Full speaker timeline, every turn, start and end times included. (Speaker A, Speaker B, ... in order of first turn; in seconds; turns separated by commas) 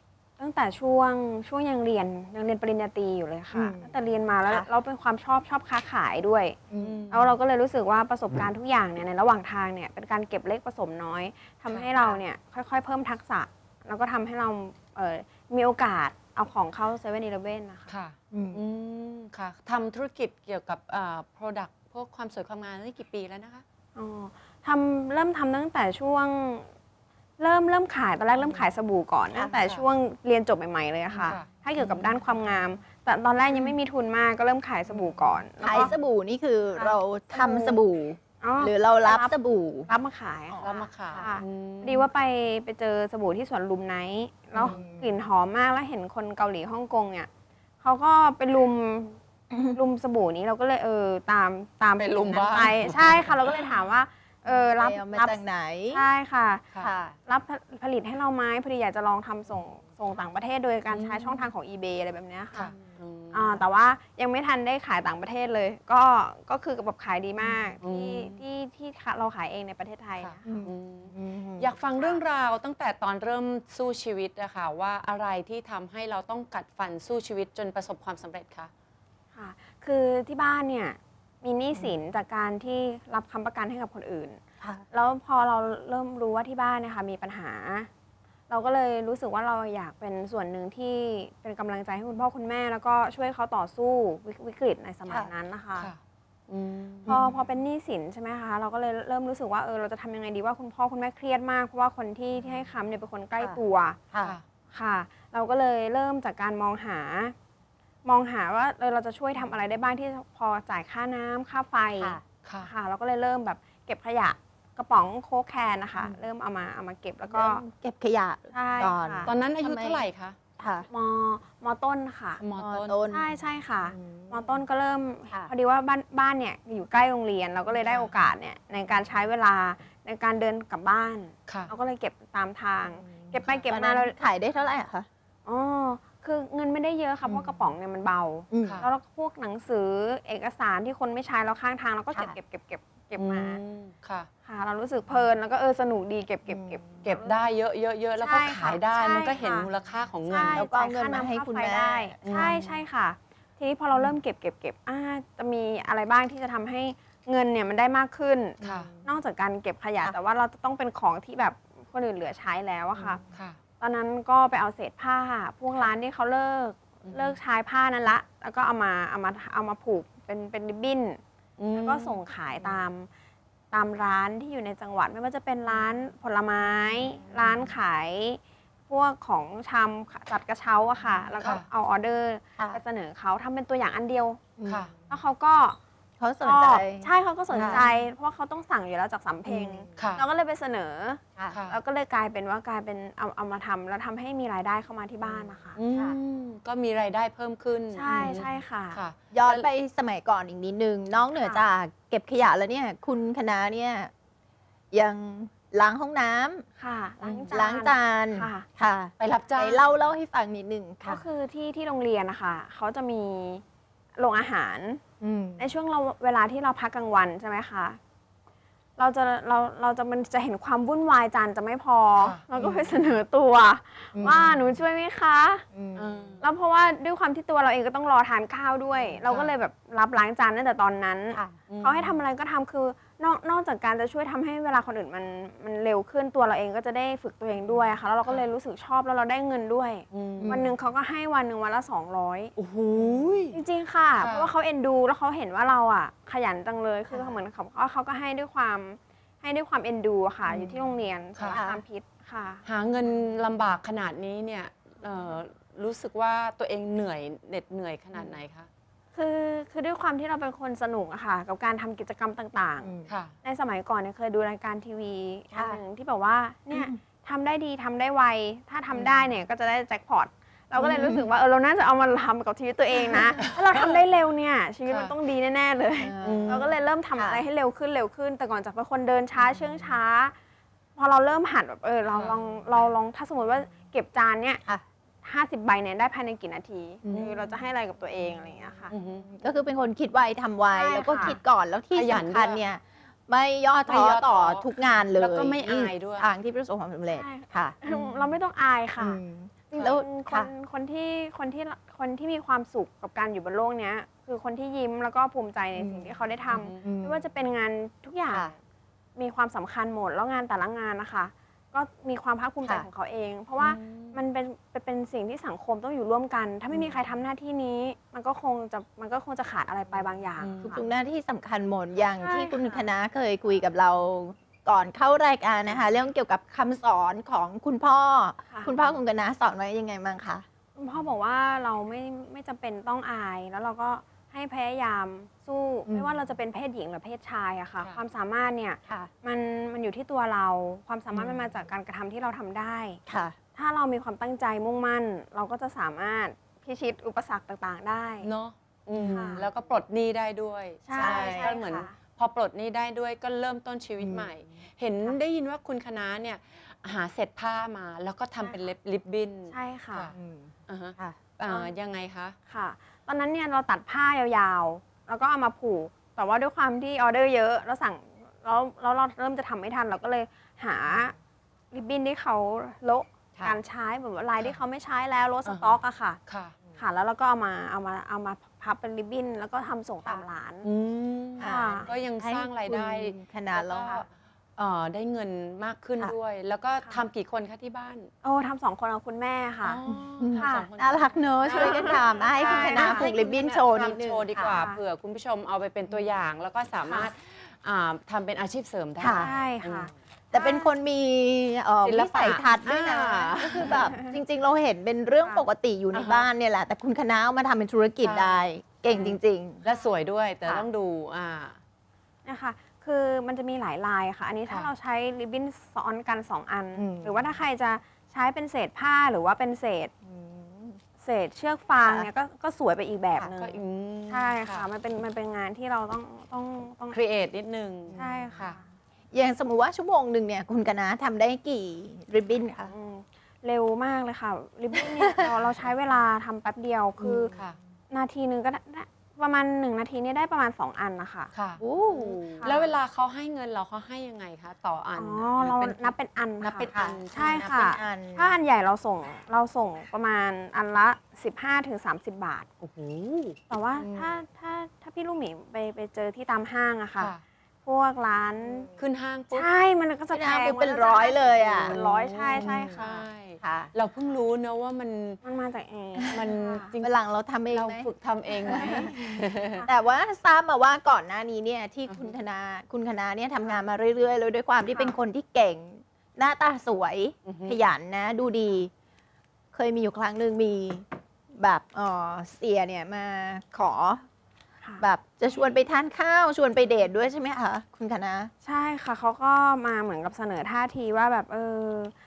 Speaker A: 0.4-6.6, Speaker B: 3.5-3.9, Speaker B: 6.7-7.0, Speaker C: 6.8-7.3, Speaker A: 7.1-17.9, Speaker B: 11.7-12.2, Speaker C: 17.9-23.6, Speaker B: 18.3-18.6, Speaker A: 23.9-26.7, Speaker A: 27.4-35.9, Speaker B: 29.3-29.6, Speaker C: 31.1-31.5, Speaker B: 34.9-39.9, Speaker A: 36.7-37.8, Speaker A: 38.4-39.4, Speaker A: 39.9-47.3, Speaker B: 40.5-41.3, Speaker C: 40.6-42.1, Speaker B: 44.5-45.1, Speaker A: 47.8-49.2, Speaker B: 49.5-49.8, Speaker A: 49.7-56.7, Speaker C: 52.0-53.4, Speaker B: 54.5-56.0, Speaker B: 56.8-57.2, Speaker A: 57.3-62.8, Speaker C: 60.9-61.5, Speaker C: 62.5-63.6, Speaker A: 63.3-70.5, Speaker B: 67.4-67.8, Speaker C: 67.8-68.4, Speaker C: 70.2-78.7, Speaker B: 70.4-71.7, Speaker A: 72.0-72.2, Speaker A: 79.3-84.4, Speaker A: 84.9-87.9, Speaker A: 88.5-95.9, Speaker C: 95.8-97.2, Speaker B: 97.1-97.5, Speaker A: 97.1-104.0, Speaker B: 104.1-104.4, Speaker A: 104.7-107.3, Speaker A: 108.0-117.6, Speaker B: 112.0-112.2, Speaker C: 112.4-112.7, Speaker B: 117.3-120.0, Speaker A: 118.5-119.3, Speaker C: 119.2-120.4, Speaker B: 120.6-120.9, Speaker A: 120.9-122.4, Speaker C: 122.4-123.0, Speaker B: 122.6-123.2, Speaker A: 123.1-134.2, Speaker B: 123.9-124.5, Speaker C: 127.9-128.1, Speaker C: 131.5-131.7, Speaker B: 133.0-135.1, Speaker A: 135.4-143.6, Speaker B: 137.2-137.7, Speaker B: 138.5-138.9, Speaker C: 143.2-144.3, Speaker A: 144.4-147.4, Speaker B: 146.5-147.1, Speaker C: 147.0-150.7, Speaker A: 148.2-149.7, Speaker A: 150.3-163.2, Speaker B: 150.4-152.8, Speaker C: 152.2-152.6, Speaker C: 158.6-158.9, Speaker B: 158.6-159.1, Speaker B: 162.9-163.2, Speaker C: 163.3-163.6, Speaker A: 163.8-171.2, Speaker C: 167.1-167.4, Speaker C: 171.6-172.2, Speaker A: 171.7-173.1, Speaker A: 173.7-184.5, Speaker B: 177.2-177.7, Speaker C: 181.4-181.7, Speaker B: 184.6-185.1, Speaker C: 184.7-184.9, Speaker A: 185.1-185.8, Speaker B: 186.2-187.8, Speaker A: 186.4-195.8, Speaker B: 189.5-190.1, Speaker C: 190.0-190.2, Speaker C: 191.5-191.8, Speaker B: 195.2-196.2, Speaker C: 195.8-199.7, Speaker A: 197.9-199.0, Speaker B: 198.1-198.4, Speaker B: 199.3-204.1, Speaker A: 201.3-201.6, Speaker B: 204.9-206.6, Speaker A: 206.8-208.7, Speaker C: 207.2-207.5, Speaker B: 207.5-211.2, Speaker C: 209.2-209.9, Speaker A: 211.1-213.6, Speaker A: 214.2-215.0, Speaker B: 215.2-215.7, Speaker A: 215.6-218.0, Speaker A: 219.0-225.7, Speaker C: 222.2-222.4, Speaker B: 222.5-223.1, Speaker B: 224.1-224.8, Speaker B: 225.7-226.3, Speaker C: 226.0-226.4, Speaker A: 226.4-242.5, Speaker C: 229.2-229.5, Speaker B: 231.3-231.6, Speaker C: 231.7-232.2, Speaker C: 238.2-238.5, Speaker C: 240.1-240.6, Speaker B: 240.4-240.7, Speaker C: 242.6-243.6, Speaker A: 243.5-252.6, Speaker C: 244.2-244.5, Speaker B: 247.1-247.4, Speaker C: 250.5-250.8, Speaker B: 251.5-251.8, Speaker C: 252.7-258.7, Speaker A: 259.1-280.4, Speaker B: 262.8-263.1, Speaker C: 263.1-263.3, Speaker B: 265.5-265.8, Speaker B: 266.7-267.0, Speaker B: 270.8-271.2, Speaker C: 274.9-275.1, Speaker B: 276.0-276.5, Speaker C: 276.2-276.7, Speaker B: 277.2-277.4, Speaker B: 279.4-280.0, Speaker A: 281.0-284.6, Speaker C: 282.1-282.4, Speaker A: 285.2-288.9, Speaker B: 287.0-287.6, Speaker C: 287.1-287.4, Speaker B: 288.2-298.4, Speaker C: 288.9-289.3, Speaker A: 290.7-291.4, Speaker C: 291.9-292.6, Speaker C: 293.9-296.3, Speaker A: 297.1-299.2, Speaker B: 299.0-300.5, Speaker A: 299.7-308.6, Speaker B: 305.8-306.2, Speaker C: 306.5-306.9, Speaker B: 306.8-307.2, Speaker A: 309.2-320.9, Speaker C: 313.6-314.2, Speaker C: 320.4-320.8, Speaker B: 320.6-330.4, Speaker A: 322.2-322.9, Speaker A: 328.5-328.8, Speaker A: 330.8-343.0, Speaker B: 343.1-343.4, Speaker A: 343.6-348.3, Speaker C: 348.2-360.1, Speaker B: 348.9-349.6, Speaker A: 349.1-349.4, Speaker A: 350.9-352.0, Speaker B: 350.9-351.6, Speaker B: 354.0-354.3, Speaker A: 359.5-360.1, Speaker B: 360.1-361.2, Speaker C: 360.7-362.4, Speaker A: 361.5-361.8, Speaker A: 362.5-371.1, Speaker A: 371.7-376.2, Speaker C: 375.5-376.6, Speaker A: 376.8-380.7, Speaker C: 380.6-388.1, Speaker B: 381.4-384.1, Speaker A: 381.4-381.9, Speaker A: 388.2-389.8, Speaker C: 389.6-399.9, Speaker B: 389.9-394.5, Speaker A: 390.4-390.7, Speaker A: 391.4-393.1, Speaker A: 394.4-394.8, Speaker A: 396.8-397.1, Speaker B: 399.0-399.3, Speaker A: 399.1-400.7, Speaker B: 400.3-409.6, Speaker C: 401.8-403.9, Speaker A: 403.7-404.1, Speaker C: 405.9-406.3, Speaker C: 408.0-411.6, Speaker A: 412.2-419.9, Speaker B: 416.8-417.3, Speaker B: 420.0-420.8, Speaker A: 421.0-427.0, Speaker B: 421.8-422.1, Speaker C: 423.4-424.7, Speaker C: 426.9-428.6, Speaker B: 427.9-428.4, Speaker A: 428.0-428.6, Speaker B: 429.1-432.7, Speaker A: 432.7-437.3, Speaker B: 434.8-435.3, Speaker B: 437.0-437.6, Speaker C: 437.1-437.6, Speaker A: 437.9-441.3, Speaker C: 441.3-447.4, Speaker B: 441.6-442.6, Speaker A: 442.4-442.7, Speaker A: 445.0-452.5, Speaker B: 446.7-448.4, Speaker C: 452.6-453.4, Speaker A: 453.5-457.1, Speaker B: 453.8-454.2, Speaker C: 457.0-457.2, Speaker A: 457.6-458.7, Speaker B: 458.4-458.7, Speaker C: 458.8-459.5, Speaker A: 459.3-463.1, Speaker B: 460.1-461.8, Speaker C: 461.6-465.2, Speaker B: 462.4-462.9, Speaker B: 463.4-463.7, Speaker A: 465.2-466.7, Speaker C: 466.1-466.9, Speaker B: 466.8-467.9, Speaker C: 467.5-469.6, Speaker A: 468.4-469.7, Speaker B: 468.5-469.1, Speaker B: 469.7-478.7, Speaker C: 471.9-472.2, Speaker A: 474.7-475.0, Speaker C: 477.2-477.6, Speaker B: 479.5-484.1, Speaker B: 484.8-488.3, Speaker A: 488.4-491.9